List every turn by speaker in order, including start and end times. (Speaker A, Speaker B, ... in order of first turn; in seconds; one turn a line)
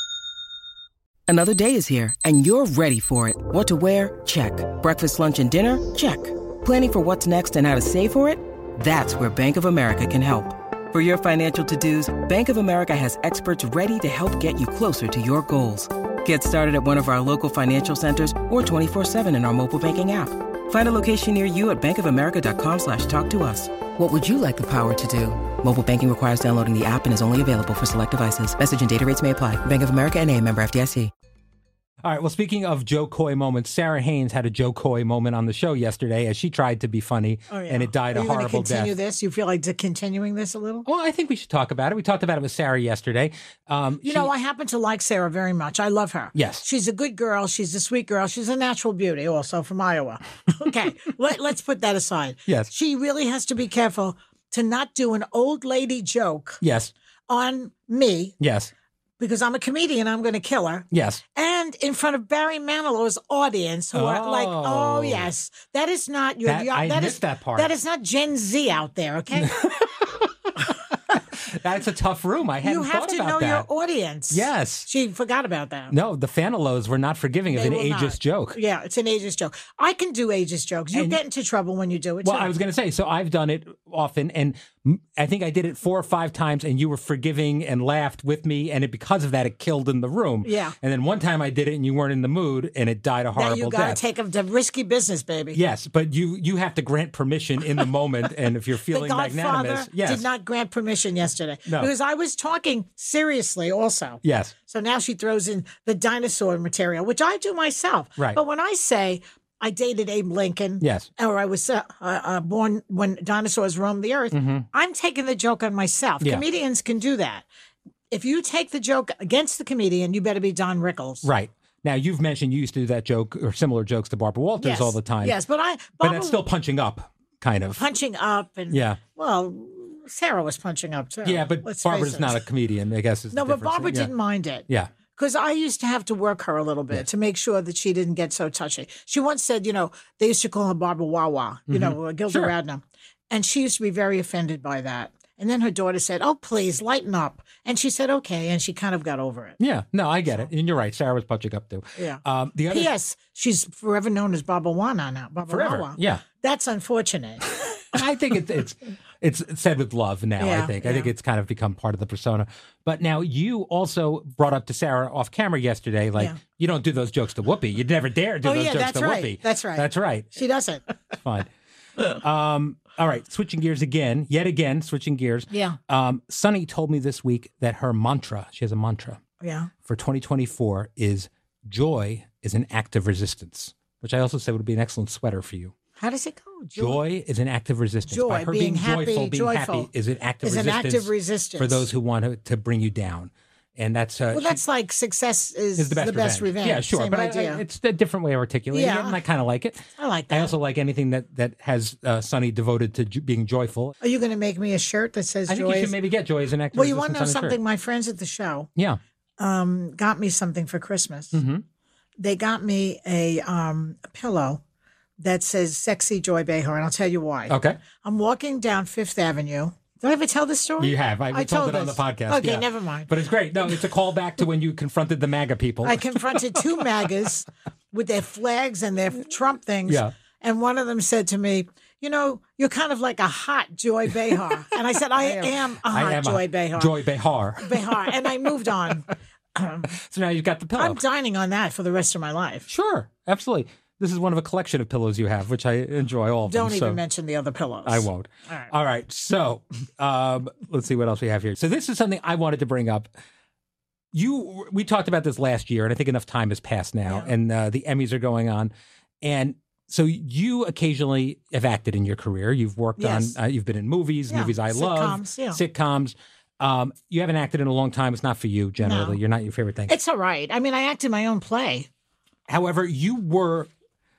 Speaker A: 1.3-31.1
Speaker B: 32.0-38.9
Speaker C: 37.5-40.9
Speaker B: 40.9-44.3
Speaker C: 44.0-56.6
Speaker B: 46.4-46.6
Speaker B: 56.6-56.9
Speaker C: 57.3-58.4
Speaker B: 58.4-58.7
Speaker C: 59.2-69.8
Speaker B: 60.9-61.2
Speaker B: 63.9-65.3
Speaker B: 66.5-67.7
Speaker B: 71.1-73.7
Speaker C: 72.6-75.9
Speaker B: 74.3-74.9
Speaker B: 75.9-78.6
Speaker C: 77.5-82.5
Speaker B: 80.9-81.2
Speaker B: 82.2-94.0
Speaker C: 90.4-90.7
Speaker C: 93.3-95.6
Speaker B: 95.5-100.3
Speaker C: 98.9-117.5
Speaker B: 104.2-104.5
Speaker B: 110.8-111.1
Speaker B: 114.3-114.7
Speaker C: 118.1-121.3
Speaker B: 121.2-125.4
Speaker C: 124.6-126.4
Speaker B: 126.0-127.8
Speaker C: 127.8-132.4
Speaker B: 128.7-129.0
Speaker B: 131.2-134.1
Speaker C: 133.3-149.6
Speaker B: 141.7-142.5
Speaker B: 149.6-152.9
Speaker C: 152.0-157.5
Speaker B: 155.5-156.2
Speaker B: 157.9-170.3
Speaker C: 160.4-161.1
Speaker C: 168.4-170.9
Speaker B: 171.2-179.2
Speaker C: 175.5-175.8
Speaker C: 179.4-179.7
Speaker B: 179.8-185.7
Speaker C: 186.0-187.0
Speaker B: 186.8-194.6
Speaker C: 188.1-189.9
Speaker C: 190.4-191.9
Speaker C: 194.3-197.6
Speaker B: 195.8-204.0
Speaker C: 198.7-199.2
Speaker C: 200.0-200.5
Speaker C: 204.0-205.9
Speaker B: 205.5-207.6
Speaker C: 206.7-208.7
Speaker C: 209.4-211.4
Speaker B: 211.3-211.6
Speaker C: 212.2-214.6
Speaker C: 215.2-223.1
Speaker B: 217.5-217.8
Speaker B: 220.8-226.8
Speaker C: 225.8-237.0
Speaker B: 229.9-230.1
Speaker B: 235.2-238.0
Speaker C: 237.6-239.9
Speaker B: 239.9-241.0
Speaker C: 240.8-242.7
Speaker B: 242.7-247.0
Speaker C: 246.5-248.7
Speaker B: 247.8-253.1
Speaker B: 254.1-258.7
Speaker B: 259.2-269.9
Speaker C: 263.0-263.4
Speaker C: 264.3-265.6
Speaker C: 268.8-269.2
Speaker C: 269.9-271.9
Speaker B: 272.5-273.7